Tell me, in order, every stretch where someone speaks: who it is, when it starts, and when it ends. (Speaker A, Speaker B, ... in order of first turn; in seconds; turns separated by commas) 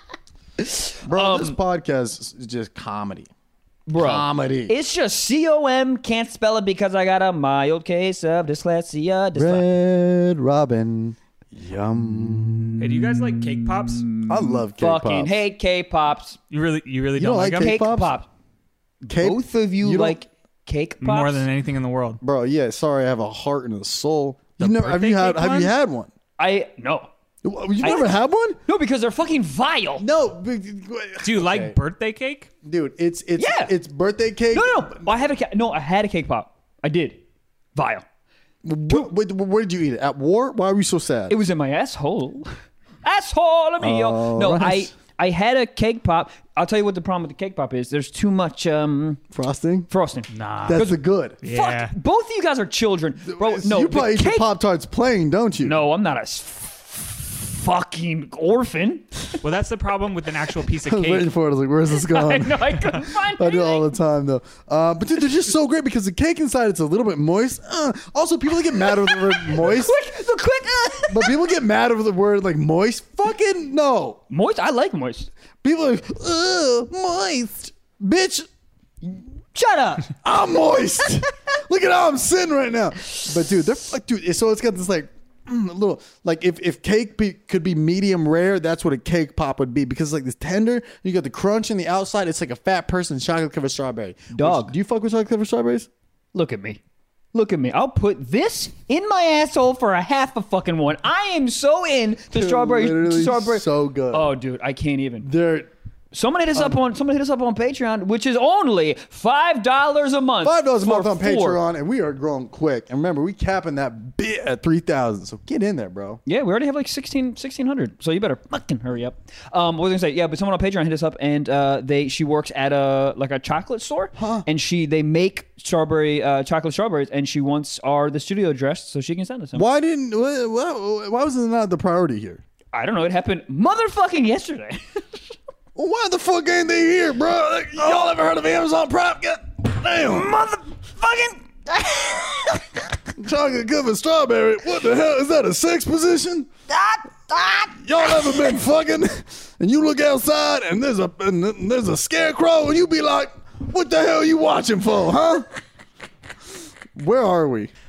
Speaker A: 0.6-1.6, Speaker B: 1.0-3.3, Speaker A: 3.9-9.7, Speaker B: 4.0-4.7, Speaker B: 9.3-13.2, Speaker C: 12.8-14.1, Speaker A: 13.8-16.4, Speaker B: 14.3-15.4, Speaker C: 16.5-17.7, Speaker B: 17.2-18.1, Speaker A: 17.6-18.3, Speaker B: 19.1-20.2, Speaker A: 19.1-21.4, Speaker C: 21.0-22.2, Speaker B: 22.2-26.1, Speaker C: 24.6-25.7, Speaker A: 26.4-27.1, Speaker B: 27.4-28.6, Speaker A: 27.8-28.1, Speaker A: 28.6-30.1, Speaker B: 30.0-31.8, Speaker C: 31.2-32.5, Speaker B: 32.6-35.0, Speaker A: 33.4-33.7, Speaker A: 34.5-37.2, Speaker A: 37.7-38.0, Speaker B: 38.6-41.4, Speaker A: 41.3-42.5, Speaker A: 43.0-49.2, Speaker B: 43.8-44.9, Speaker B: 49.3-49.9, Speaker A: 49.9-54.5, Speaker C: 50.3-50.9, Speaker B: 50.6-51.4, Speaker C: 51.4-51.9, Speaker B: 53.2-55.8, Speaker A: 55.6-59.4, Speaker C: 59.4-61.3, Speaker B: 60.8-70.0, Speaker A: 61.9-63.9, Speaker A: 68.8-71.4, Speaker B: 71.1-74.2, Speaker A: 74.3-75.3, Speaker B: 75.6-78.5, Speaker A: 79.0-80.1, Speaker B: 80.2-95.9, Speaker A: 94.3-94.7, Speaker A: 96.3-96.8, Speaker A: 97.3-105.3, Speaker B: 102.3-104.3, Speaker B: 105.2-105.7, Speaker A: 106.1-111.6, Speaker B: 110.4-116.2, Speaker A: 116.2-129.6, Speaker B: 124.2-124.5, Speaker B: 129.5-132.4, Speaker A: 132.7-135.2, Speaker B: 135.7-140.3, Speaker A: 140.0-142.8, Speaker B: 143.2-146.5, Speaker A: 146.7-148.6, Speaker B: 147.8-155.4, Speaker B: 156.9-157.7